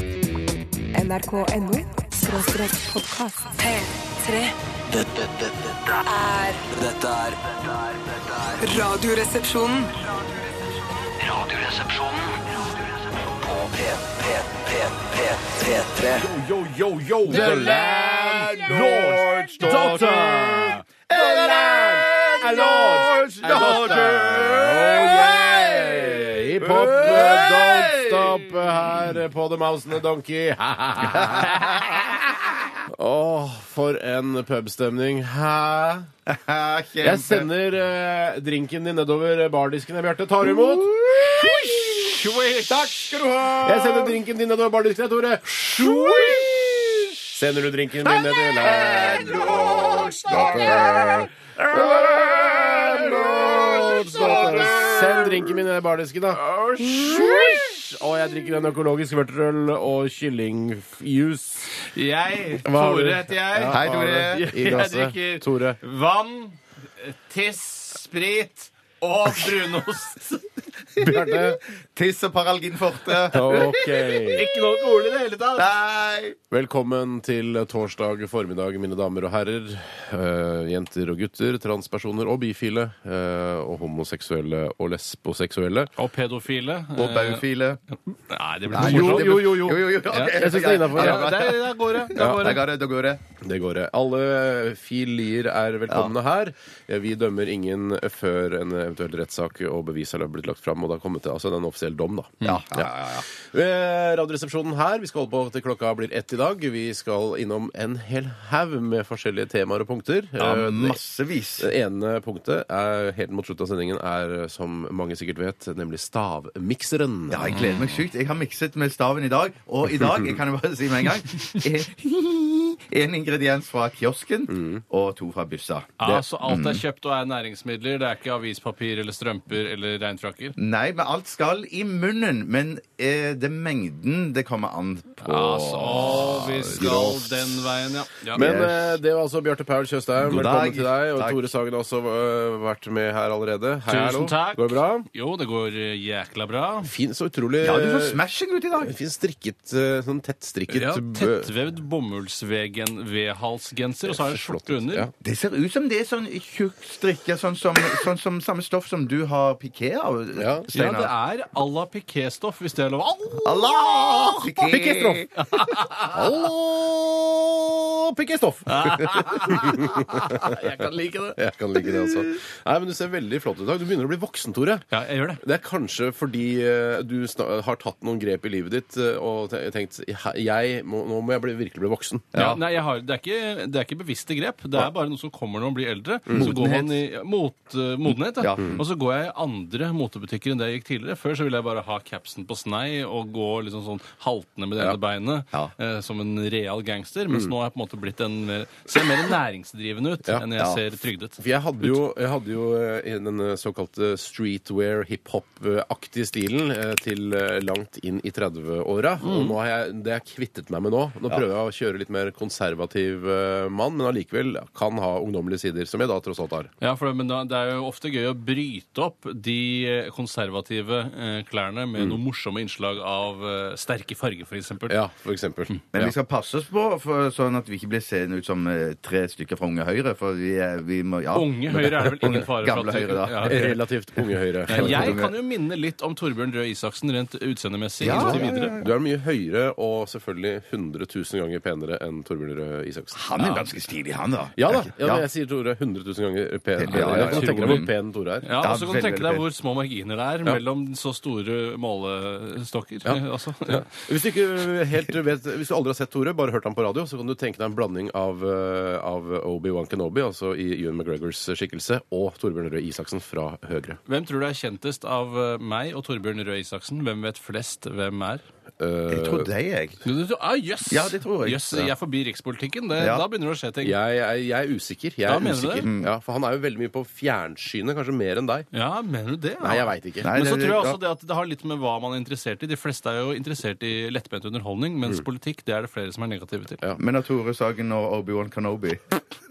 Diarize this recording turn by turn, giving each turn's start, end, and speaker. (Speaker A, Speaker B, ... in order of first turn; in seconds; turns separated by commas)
Speaker A: 0.9-4.5, Speaker B: 4.9-6.0, Speaker A: 6.1-6.6, Speaker B: 6.7-8.6, Speaker A: 8.6-9.9, Speaker B: 11.2-16.3, Speaker C: 16.2-31.9, Speaker D: 17.2-29.2, Speaker E: 17.3-17.8, Speaker E: 18.4-20.8, Speaker E: 23.4-24.0, Speaker D: 31.1-32.5, Speaker C: 32.9-36.1, Speaker D: 36.3-37.5, Speaker C: 37.0-40.9, Speaker D: 40.4-44.2, Speaker E: 41.3-43.3, Speaker C: 43.6-45.5, Speaker E: 45.5-46.5, Speaker D: 45.7-47.1, Speaker C: 47.4-61.8, Speaker E: 48.3-55.3, Speaker D: 48.6-51.3, Speaker D: 54.1-54.6, Speaker E: 56.4-57.8, Speaker E: 61.8-70.7, Speaker C: 62.6-65.8, Speaker D: 63.7-64.5, Speaker D: 71.0-74.6, Speaker C: 71.0-71.6, Speaker C: 73.3-74.4, Speaker E: 73.4-75.7, Speaker D: 75.5-76.4, Speaker C: 76.5-85.9, Speaker E: 86.0-87.5, Speaker D: 87.0-87.8, Speaker E: 88.3-92.7, Speaker D: 88.7-93.2, Speaker C: 88.7-89.8, Speaker C: 90.3-91.5, Speaker C: 92.2-92.4, Speaker C: 93.4-111.0, Speaker D: 95.9-96.1, Speaker D: 102.4-103.3, Speaker D: 110.4-111.7, Speaker C: 111.6-117.6, Speaker D: 117.3-126.8, Speaker E: 117.5-117.9, Speaker C: 124.5-124.8, Speaker E: 126.0-130.6, Speaker D: 130.6-137.2, Speaker E: 135.2-138.5, Speaker C: 136.2-137.5, Speaker C: 138.3-145.1, Speaker D: 138.3-138.8, Speaker D: 140.2-141.5, Speaker E: 143.9-146.9, Speaker C: 146.8-148.2, Speaker D: 147.6-148.9, Speaker C: 148.8-151.5, Speaker E: 150.7-155.1, Speaker C: 154.1-155.1, Speaker D: 155.2-161.1, Speaker C: 160.4-160.7, Speaker E: 160.7-163.7, Speaker D: 163.4-165.7, Speaker C: 164.5-165.3, Speaker E: 165.3-166.2, Speaker C: 166.1-170.5, Speaker E: 168.7-172.3, Speaker C: 171.4-174.8, Speaker E: 174.9-175.4, Speaker C: 175.4-182.3, Speaker D: 182.3-182.6, Speaker E: 182.3-202.0, Speaker C: 186.3-186.5, Speaker D: 186.3-187.0, Speaker D: 188.1-188.8, Speaker C: 201.4-216.7, Speaker E: 209.2-209.6, Speaker E: 216.8-225.0, Speaker C: 224.9-226.1, Speaker D: 225.9-233.7, Speaker E: 231.3-233.8, Speaker C: 233.4-235.2, Speaker D: 234.7-235.3, Speaker E: 234.7-238.8, Speaker D: 238.0-238.9, Speaker C: 238.1-243.2, Speaker D: 243.1-245.2, Speaker E: 243.4-243.7, Speaker C: 244.6-248.5, Speaker D: 246.8-247.9, Speaker E: 247.0-247.9, Speaker E: 248.4-253.9, Speaker D: 248.6-249.4, Speaker C: 253.1-264.0, Speaker E: 264.1-268.4, Speaker C: 268.8-269.5, Speaker D: 269.1-270.0, Speaker E: 270.1-274.0, Speaker D: 270.9-271.9, Speaker D: 273.0-273.3, Speaker C: 273.8-278.7, Speaker E: 275.3-275.9, Speaker D: 275.8-276.1, Speaker E: 278.7-286.8, Speaker C: 279.6-280.3, Speaker D: 280.2-281.0, Speaker D: 287.0-289.1